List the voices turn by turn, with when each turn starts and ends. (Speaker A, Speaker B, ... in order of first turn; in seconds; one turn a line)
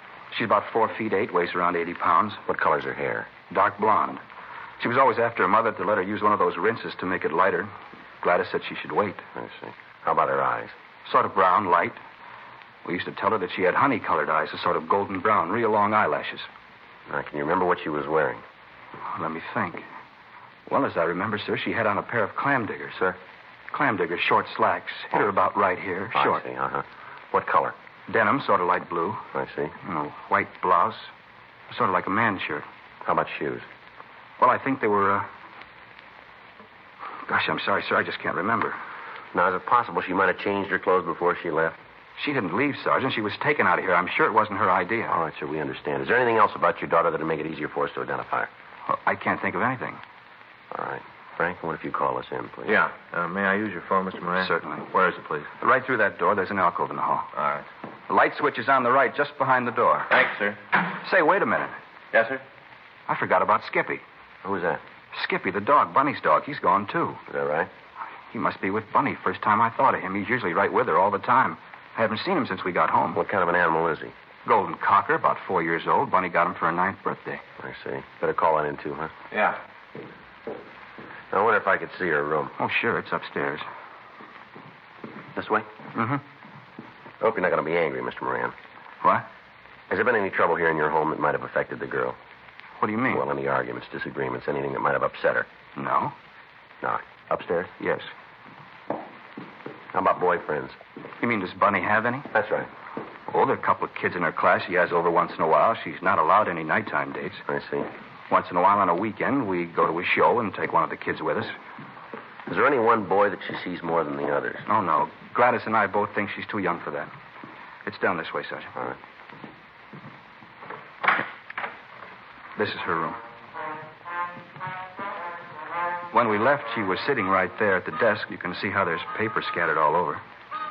Speaker A: 0.3-2.4
Speaker B: 2.5-3.3
Speaker A: 3.5-4.2
Speaker A: 4.8-9.3
Speaker B: 9.4-10.8
Speaker A: 11.0-12.0
Speaker A: 12.8-16.5
Speaker B: 17.1-18.4
Speaker A: 19.1-19.9
Speaker A: 20.7-23.2
Speaker A: 23.7-26.4
Speaker B: 26.1-27.8
Speaker A: 28.1-29.3
Speaker B: 29.3-29.7
Speaker A: 29.8-31.1
Speaker A: 31.7-32.6
Speaker B: 33.0-33.7
Speaker A: 34.4-35.3
Speaker A: 37.2-38.8
Speaker B: 39.3-41.8
Speaker A: 42.2-45.2
Speaker B: 45.1-48.5
Speaker A: 48.9-50.0
Speaker B: 50.7-52.8
Speaker C: 52.7-55.5
Speaker A: 54.4-54.9
Speaker A: 55.6-57.3
Speaker C: 57.4-57.7
Speaker A: 58.1-60.1
Speaker C: 60.1-60.6
Speaker A: 61.0-61.8
Speaker C: 62.1-62.4
Speaker A: 63.1-64.0
Speaker B: 64.4-64.8
Speaker A: 65.1-67.2
Speaker B: 67.3-67.7
Speaker A: 68.3-73.2
Speaker B: 73.2-74.1
Speaker A: 74.5-77.4
Speaker B: 77.6-79.1
Speaker C: 79.3-79.6
Speaker B: 81.3-82.6
Speaker A: 82.6-83.7
Speaker B: 85.3-85.7
Speaker A: 86.0-86.2
Speaker B: 87.2-88.5
Speaker B: 89.9-92.2
Speaker A: 92.8-93.2
Speaker B: 93.1-95.5
Speaker A: 95.8-96.2
Speaker B: 96.8-97.7
Speaker A: 97.8-98.1
Speaker B: 99.9-100.8
Speaker A: 101.2-102.3
Speaker B: 102.3-102.7
Speaker A: 103.3-107.4
Speaker B: 107.5-107.9
Speaker A: 108.3-111.5
Speaker B: 112.5-114.7
Speaker A: 114.7-117.1
Speaker A: 117.8-118.7
Speaker A: 122.6-123.2
Speaker A: 126.1-130.2